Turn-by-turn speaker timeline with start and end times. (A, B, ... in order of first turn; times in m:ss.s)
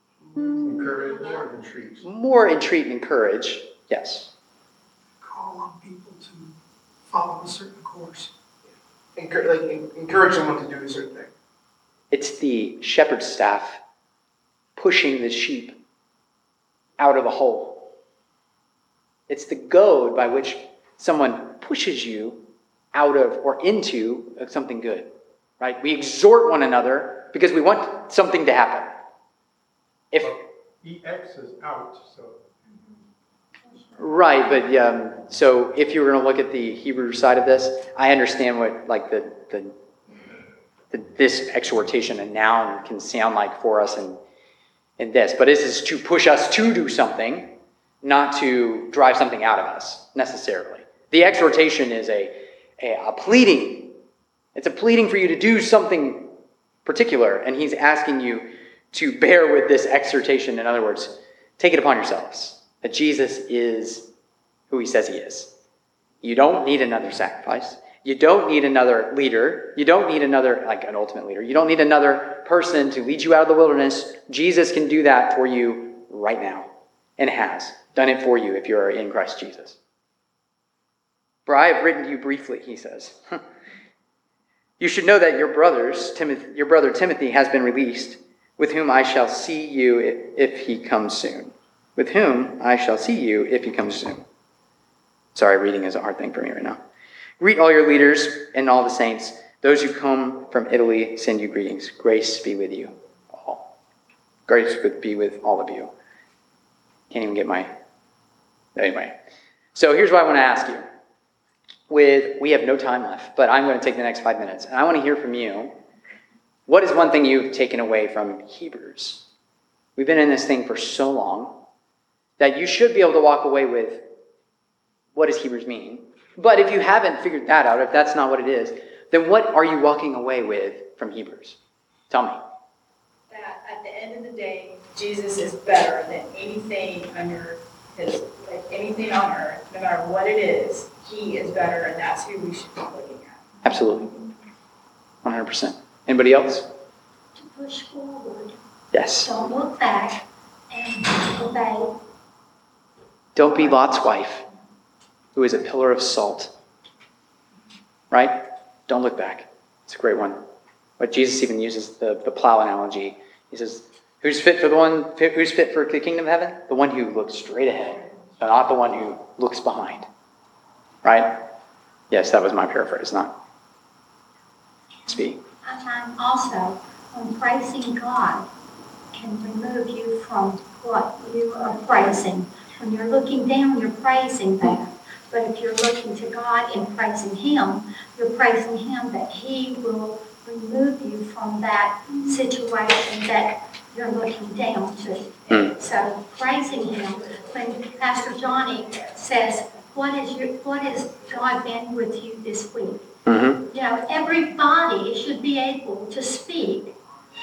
0:00.6-0:02.0 A
0:02.0-0:04.3 B
0:05.2-0:06.6 C
0:07.1-0:08.3 C
0:09.2-0:11.3 D
0:12.1-0:13.8 B
0:14.8-0:15.7 B
0:17.0-0:17.9 B
0:19.3-0:22.4 B
0:22.9-0:25.1 B
0:25.6-0:28.9 B
0:30.2-0:32.4 A
0:34.0-0:39.7 B
0:40.9-0:44.2 B
0:45.0-0:54.0 B
0:54.5-0:56.3 B
0:56.8-1:04.1 B
1:04.7-1:05.5 B
1:06.2-1:19.8 B
1:21.4-1:23.4 B
1:24.8-1:34.2 B
1:35.3-1:36.8 B
1:37.4-1:43.7 B
1:44.5-1:45.9 B
1:47.1-1:47.7 B
1:48.8-1:49.1 B
1:49.7-1:50.8 B
1:51.9-1:55.7 B
1:56.7-1:59.3 B
2:00.0-2:01.6 B
2:02.4-2:04.0 B
2:05.1-2:11.6 B
2:12.1-2:12.4 B
2:13.3-2:23.5 E
2:23.6-2:24.1 B
2:25.2-2:26.6 B
2:27.4-2:28.6 F
2:28.9-2:29.3 B
2:29.2-2:31.9 F
2:33.3-2:34.4 B
2:35.3-2:36.5 B
2:38.1-2:40.4 B
2:41.0-2:50.1 B
2:51.0-2:51.4 B
2:52.1-2:53.4 B
2:55.1-2:55.4 B
2:55.6-2:58.5 F
2:59.1-3:23.0 F
3:15.5-3:15.8 B
3:23.2-3:23.6 B
3:23.7-3:26.9 F